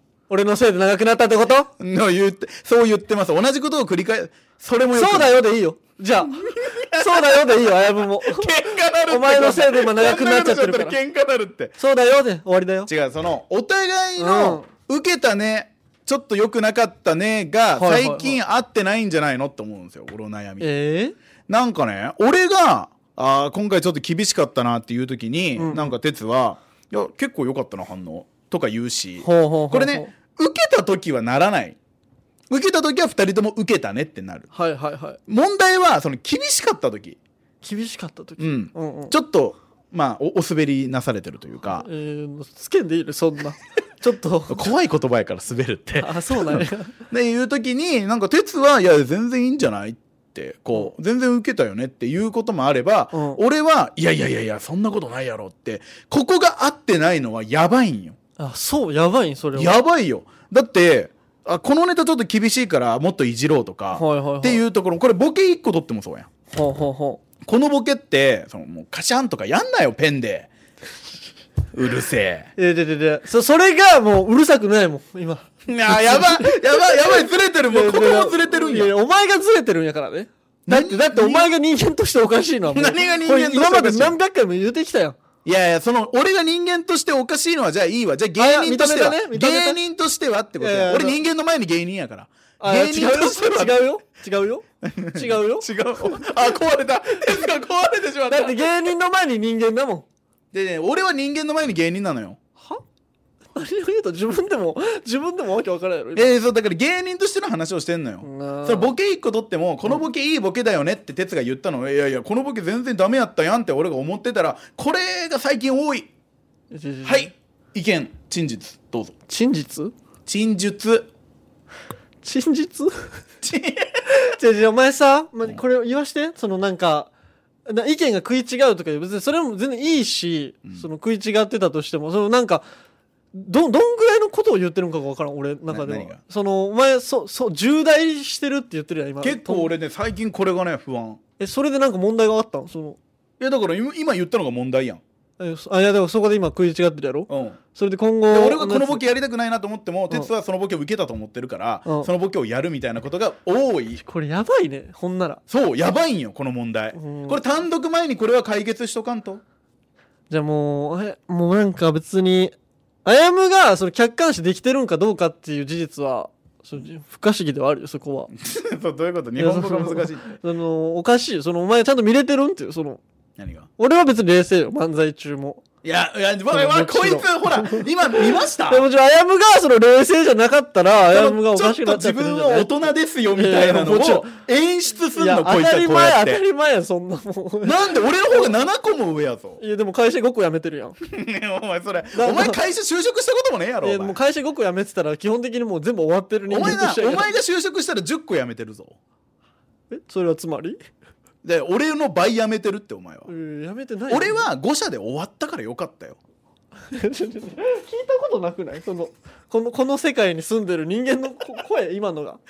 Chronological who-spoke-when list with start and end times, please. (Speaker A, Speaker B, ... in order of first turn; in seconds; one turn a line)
Speaker A: 0.3-1.7
Speaker B: 1.8-5.4
Speaker A: 4.9-11.0
Speaker B: 6.2-11.8
Speaker A: 11.8-12.9
Speaker B: 12.9-20.7
Speaker A: 14.2-14.7
Speaker A: 17.7-18.4
Speaker A: 20.6-21.1
Speaker B: 21.5-31.8
Speaker A: 25.6-25.9
Speaker A: 29.2-30.1
Speaker B: 32.5-34.5
Speaker A: 34.5-35.2
Speaker B: 35.3-37.2
Speaker A: 37.6-39.1
Speaker B: 38.4-41.9
Speaker A: 41.6-44.7
Speaker B: 44.5-58.1
Speaker A: 46.0-47.0
Speaker A: 53.1-53.4
Speaker A: 58.4-59.8
Speaker B: 59.5-66.3
Speaker A: 63.9-64.6
Speaker A: 66.5-67.2
Speaker B: 67.4-70.5
Speaker B: 71.7-72.5
Speaker A: 72.6-85.2
Speaker B: 75.7-78.9
Speaker B: 80.7-81.5
Speaker B: 82.7-84.2
Speaker B: 85.4-93.9
Speaker A: 88.4-89.8
Speaker A: 90.6-91.2
Speaker A: 92.6-96.3
Speaker B: 94.8-98.6
Speaker A: 98.3-100.0
Speaker B: 100.5-102.4
Speaker A: 103.5-106.3
Speaker B: 106.2-116.1
Speaker A: 108.2-108.9
Speaker A: 116.7-117.3
Speaker B: 117.0-119.1
Speaker A: 119.3-119.9
Speaker B: 120.2-121.1
Speaker A: 122.2-123.1
Speaker B: 123.4-124.0
Speaker A: 124.1-127.1
Speaker A: 127.7-132.6
Speaker A: 133.3-139.7
Speaker B: 135.7-136.2
Speaker B: 139.2-141.2
Speaker A: 141.4-143.0
Speaker B: 143.4-145.0
Speaker A: 145.4-149.0
Speaker B: 147.3-147.6
Speaker B: 148.3-154.0
Speaker A: 154.0-155.4
Speaker B: 155.5-159.4
Speaker A: 156.9-157.4
Speaker A: 160.3-168.3
Speaker B: 168.3-170.3
Speaker A: 169.3-173.0
Speaker B: 173.4-173.7
Speaker A: 173.8-175.6
Speaker B: 175.8-178.8
Speaker A: 176.5-182.7
Speaker B: 181.1-186.4
Speaker A: 183.3-184.4
Speaker A: 185.1-188.5
Speaker B: 187.6-189.6
Speaker A: 189.6-191.0
Speaker B: 191.0-194.2
Speaker A: 192.2-192.6
Speaker A: 193.8-197.3
Speaker B: 196.5-199.0
Speaker A: 199.9-200.8
Speaker B: 201.4-203.3
Speaker A: 203.3-204.5
Speaker B: 204.1-206.2
Speaker A: 206.9-212.4